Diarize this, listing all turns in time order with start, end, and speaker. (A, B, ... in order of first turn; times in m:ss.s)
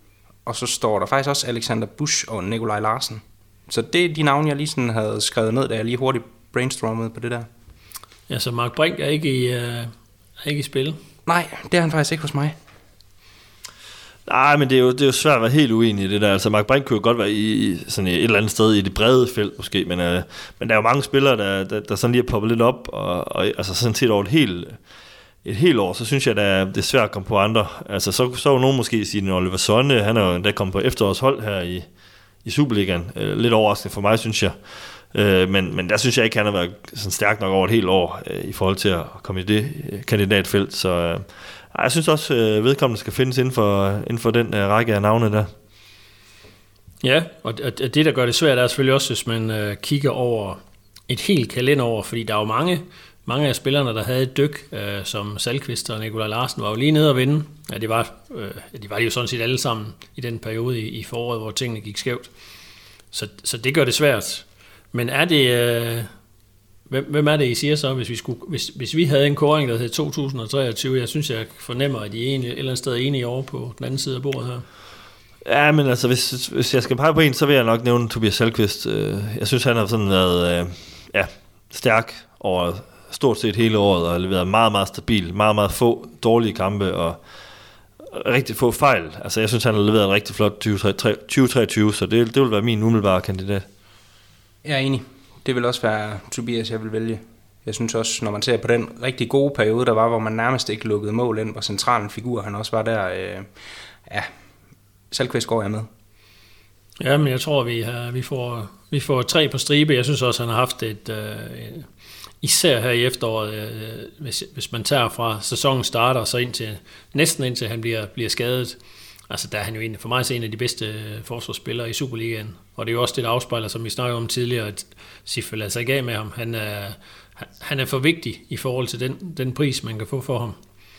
0:00.4-0:07.5 A
0:08.3-0:11.0 B
0:11.3-0:12.6 A
0:14.2-0:24.8 C
0:25.4-0:31.9 C
0:32.4-0:34.6 C
0:35.1-0:45.5 C
0:47.0-1:02.3 B
1:03.1-1:06.1 B
1:06.9-1:14.6 B
1:15.4-1:27.2 C
1:28.0-1:33.6 C
1:34.6-1:43.5 A
1:45.1-1:45.9 A
1:47.0-1:51.8 B
1:52.4-1:58.8 B
1:59.3-2:10.6 B